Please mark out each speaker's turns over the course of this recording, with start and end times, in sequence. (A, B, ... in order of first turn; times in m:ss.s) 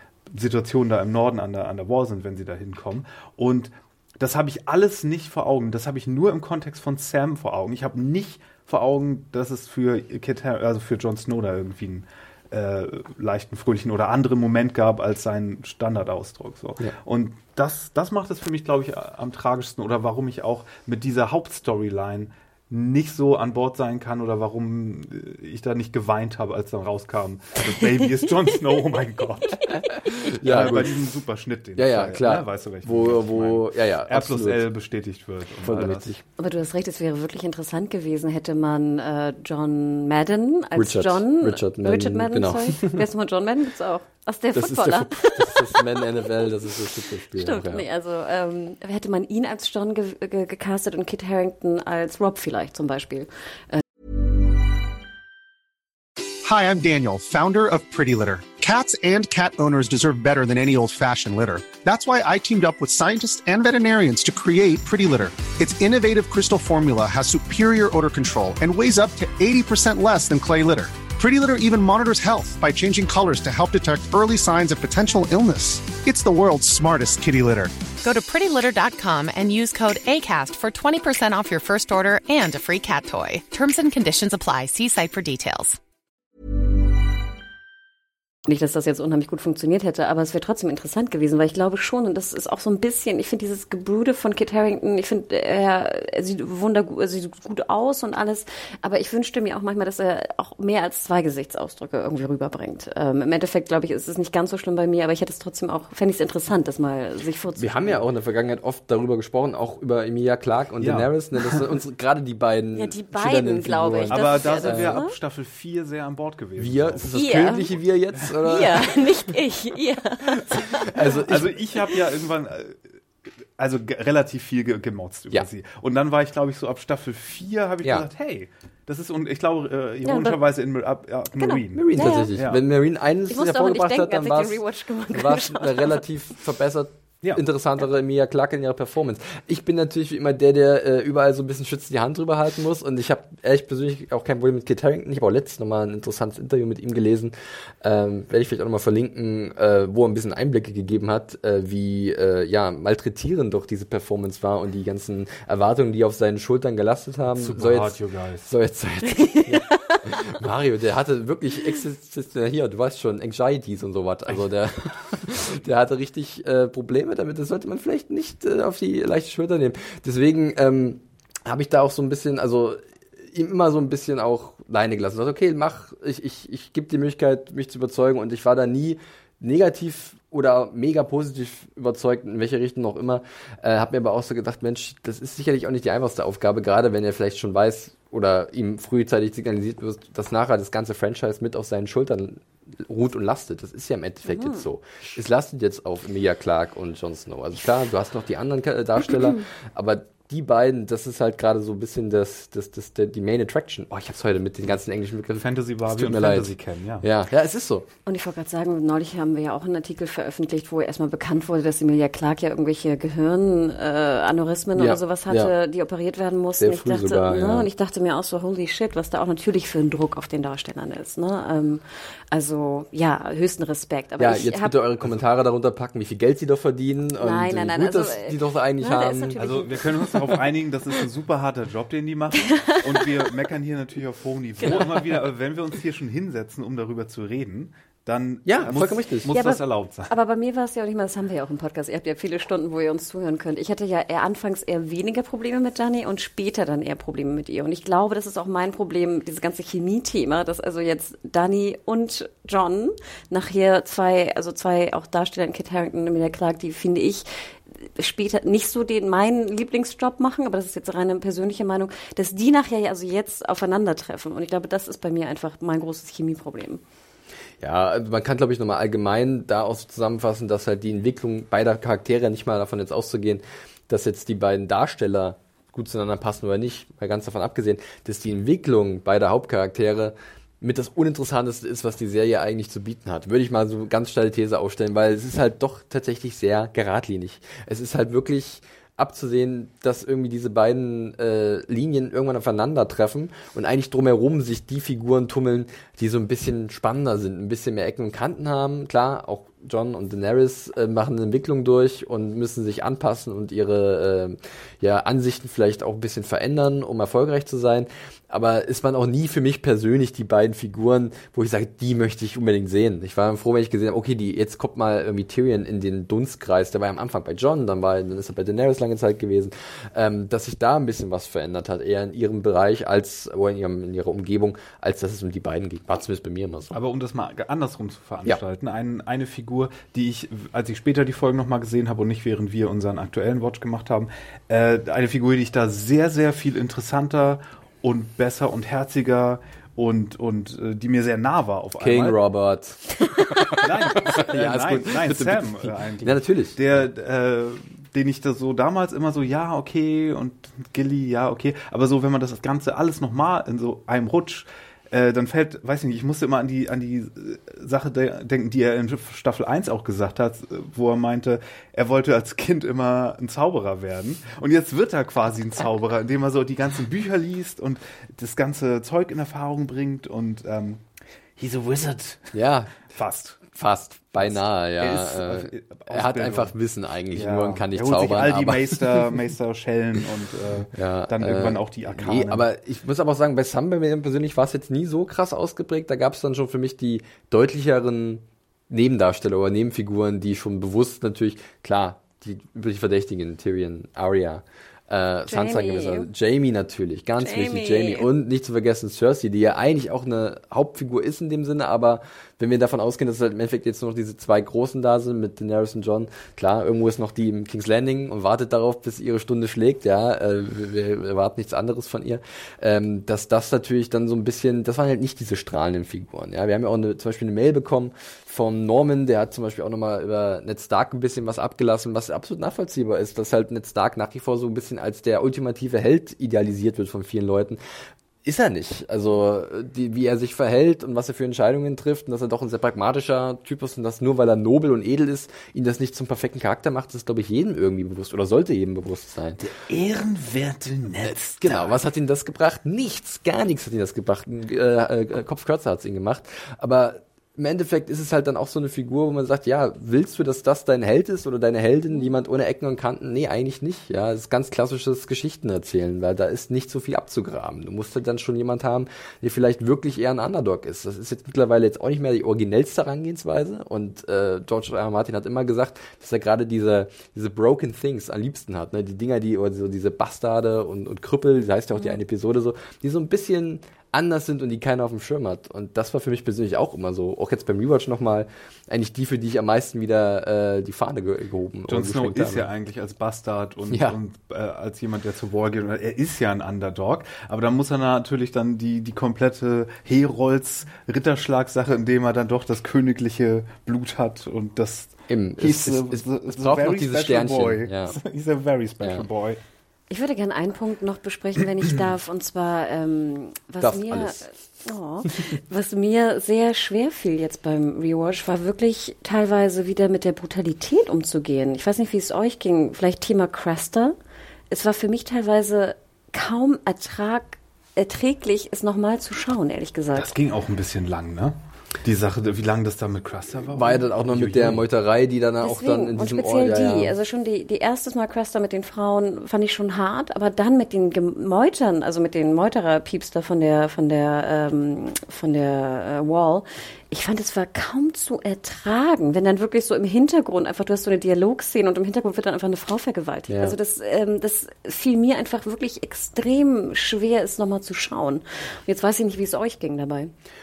0:00.3-0:36.1 A
0:30.1-0:31.0 B
0:31.8-0:34.6 B
0:35.6-0:36.2 B
0:36.4-0:46.1 C
0:40.7-0:43.0 B
0:44.5-0:47.8 B
0:47.3-0:53.8 C
0:56.4-1:17.7 D
1:18.0-1:25.8 E
1:28.5-1:48.0 C
1:47.6-1:55.0 B
1:50.8-1:51.6 A
1:52.8-1:55.1 C
1:54.1-1:57.2 A
1:56.6-1:59.0 B
1:57.1-1:57.7 C
1:58.4-2:01.2 C
2:00.9-2:01.5 B
2:01.3-2:02.8 A
2:03.6-2:12.6 A
2:10.0-2:10.4 C
2:11.4-2:12.3 C
2:11.8-3:27.9 B
2:13.3-2:16.0 C
2:37.4-2:38.5 A
2:39.4-2:40.0 C
3:14.3-3:14.6 C
3:25.4-3:27.1 A
3:28.1-3:44.8 C
3:34.8-3:35.5 B
3:36.6-3:37.7 B
3:44.2-3:49.4 B
3:47.2-3:50.4 C
3:49.4-4:00.1 A
3:52.4-3:53.3 C
3:54.6-3:55.3 C
3:58.5-3:59.3 B
3:59.3-4:17.3 C
4:17.8-4:26.8 C
4:27.6-5:26.8 B
5:26.7-5:42.2 A
5:41.8-5:46.6 B
5:43.6-6:10.8 A
6:11.4-6:12.3 A
6:12.3-6:12.7 B
6:12.9-6:13.4 A
6:13.5-6:19.0 B
6:14.2-6:16.5 A
6:17.1-6:22.4 A
6:20.7-7:07.6 B
6:35.3-6:36.1 C
6:37.2-6:38.1 C
7:08.2-7:19.4 B
7:19.4-7:21.8 A
7:21.0-8:02.5 B
8:01.7-8:19.4 A
8:03.7-8:04.0 B
8:15.1-8:18.0 B
8:18.8-8:19.1 B
8:19.9-8:34.0 C
8:23.6-8:24.3 B
8:34.5-8:40.1 C
8:40.0-8:44.6 A
8:43.5-8:46.9 B
8:45.4-9:10.1 C
9:03.3-9:03.6 B